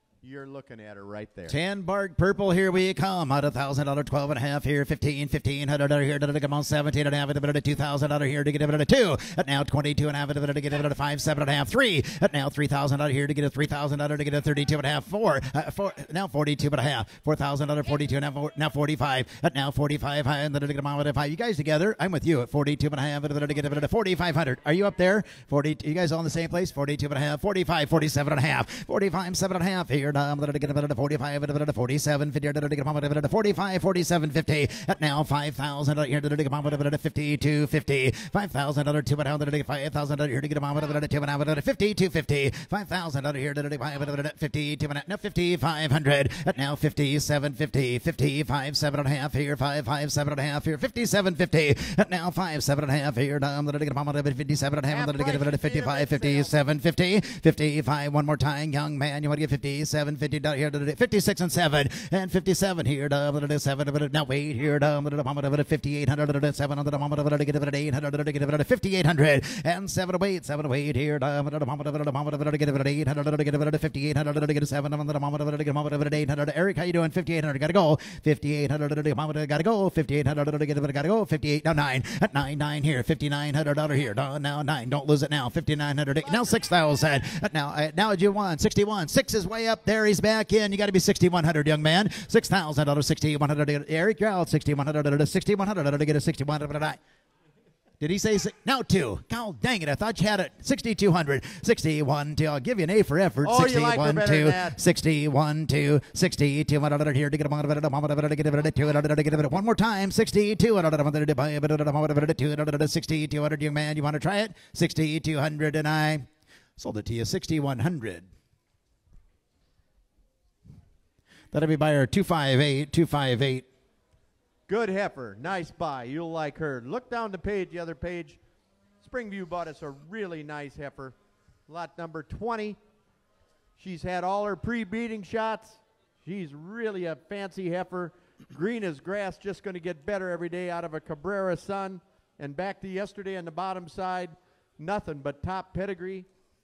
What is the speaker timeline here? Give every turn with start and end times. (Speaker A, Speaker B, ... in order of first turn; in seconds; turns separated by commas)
Speaker A: 0.2-1.6, Speaker B: 1.5-97.0, Speaker A: 54.9-56.6, Speaker A: 86.2-86.6, Speaker B: 98.0-118.3, Speaker A: 103.4-104.8, Speaker B: 121.5-123.7, Speaker A: 124.7-128.4, Speaker A: 129.0-131.2, Speaker A: 131.7-132.8, Speaker A: 133.8-146.3